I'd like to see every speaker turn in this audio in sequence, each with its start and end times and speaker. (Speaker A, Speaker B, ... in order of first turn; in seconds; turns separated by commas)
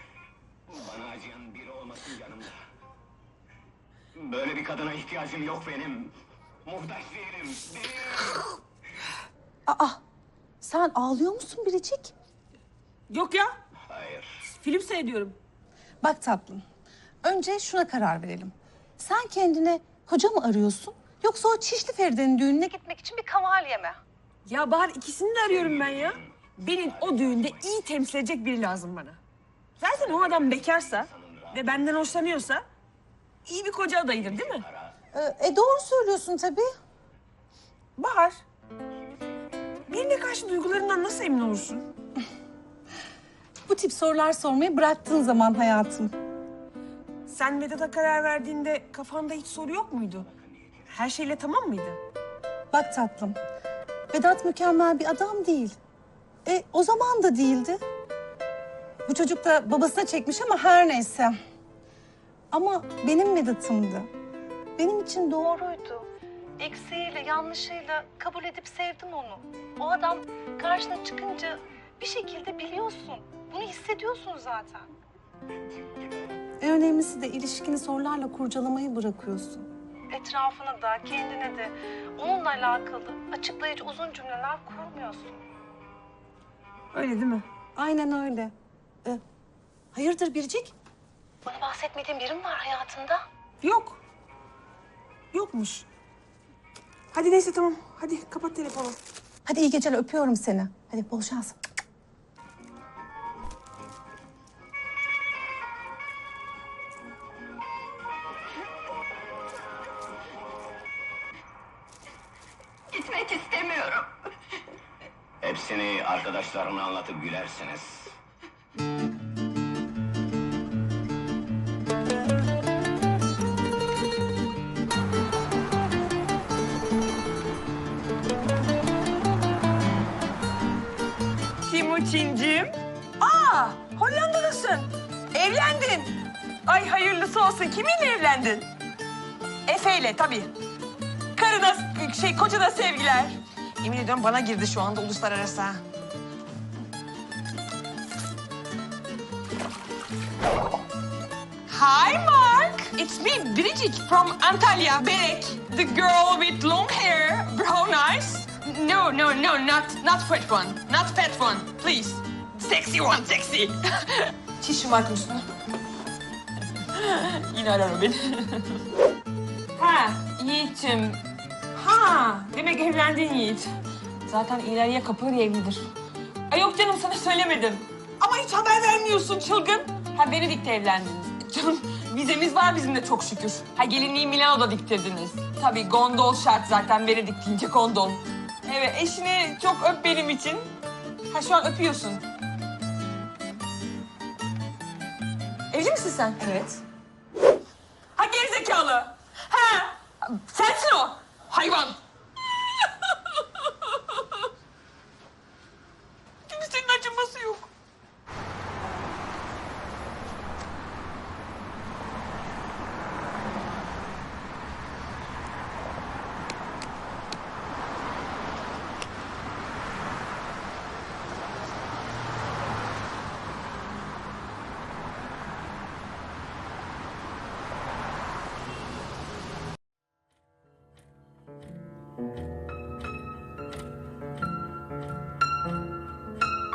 Speaker A: 0.7-2.5, Speaker A: 4.1-6.1, Speaker A: 6.6-8.3, Speaker B: 9.7-10.0, Speaker B: 10.6-12.1, Speaker C: 13.1-13.5, Speaker A: 13.9-14.3, Speaker C: 14.4-15.3, Speaker B: 16.0-16.6, Speaker B: 17.2-24.0, Speaker C: 24.5-29.2, Speaker A: 27.1-27.4, Speaker C: 29.8-32.6, Speaker C: 33.4-34.6, Speaker B: 35.1-36.6, Speaker C: 38.0-38.4, Speaker C: 39.9-41.8, Speaker B: 43.7-46.1, Speaker C: 47.2-50.3, Speaker C: 50.8-52.0, Speaker B: 52.7-53.4, Speaker B: 54.1-55.8, Speaker B: 56.4-57.8, Speaker B: 59.0-61.3, Speaker B: 62.5-64.1, Speaker B: 64.8-66.0, Speaker B: 66.6-74.9, Speaker B: 76.6-85.4, Speaker C: 86.9-87.5, Speaker B: 87.8-88.5, Speaker B: 89.9-90.7, Speaker B: 91.4-93.2, Speaker C: 93.6-94.0, Speaker C: 95.3-95.9, Speaker C: 97.1-99.0, Speaker B: 99.4-101.6, Speaker A: 112.9-114.1, Speaker A: 115.4-118.1, Speaker C: 131.6-138.7, Speaker C: 139.7-140.5, Speaker C: 141.3-145.8, Speaker C: 151.7-165.5, Speaker C: 166.7-168.8, Speaker C: 169.8-171.2, Speaker C: 171.7-173.7, Speaker C: 174.2-175.9, Speaker C: 176.5-190.7, Speaker C: 191.3-192.2, Speaker C: 195.7-196.8, Speaker C: 198.2-202.0, Speaker C: 202.7-204.4, Speaker C: 206.4-207.7